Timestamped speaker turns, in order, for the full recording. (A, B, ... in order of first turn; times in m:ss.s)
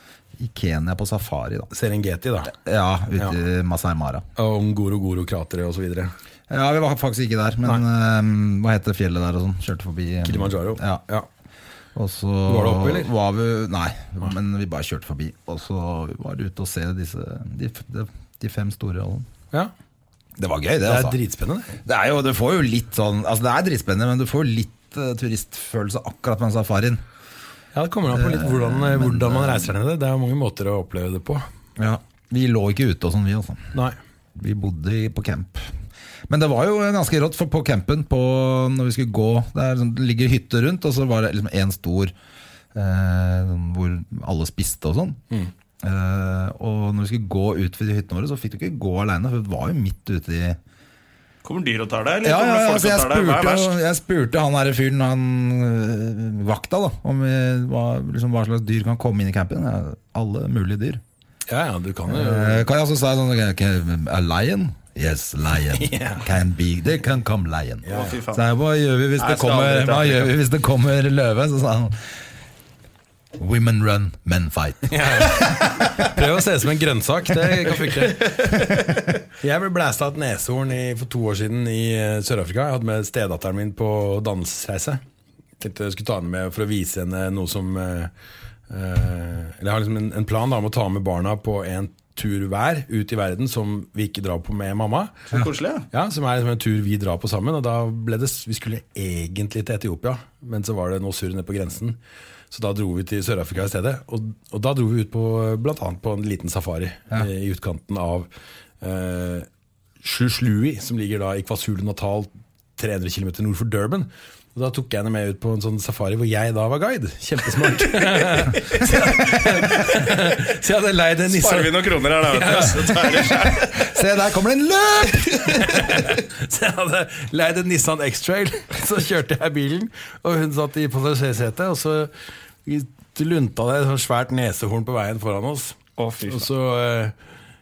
0:00.4-0:01.7 A
0:01.7-0:02.5 B
0:02.5-0:04.2 A
0:04.4-0:06.1 B
0:06.5-0:11.0 A
0:10.2-0:11.3 B
0:12.0-0:19.3 A
0:12.5-0:13.1 B
0:20.4-0:21.2 A
0:20.8-0:21.8 B
0:21.9-0:27.0 A
0:27.7-0:31.4 B
0:28.1-0:29.7 A
0:31.8-0:33.7 A
0:34.4-0:35.7 A
0:36.3-0:42.1 A
0:42.7-0:45.2 A
0:45.8-0:50.6 A
0:51.4-0:53.7 C
0:52.2-1:01.0 A
1:01.5-1:02.7 B
1:02.1-1:12.1 A
1:05.7-1:06.3 B
1:07.9-1:08.2 B
1:07.9-1:08.4 C
1:09.2-1:10.3 C
1:13.4-1:16.0 A
1:14.9-1:18.6 B
1:18.2-1:18.8 C
1:19.4-1:25.0 B
1:25.6-1:28.1 B
1:28.7-1:35.3 B
1:35.3-1:35.9 C
1:35.9-1:42.0 B
1:42.5-1:48.3 B
1:48.8-1:49.5 B
1:50.0-2:03.5 B
2:01.3-2:03.9 C
2:03.7-2:05.9 A
2:05.4-2:12.1 B
2:12.6-2:17.1 B
2:16.0-2:16.5 C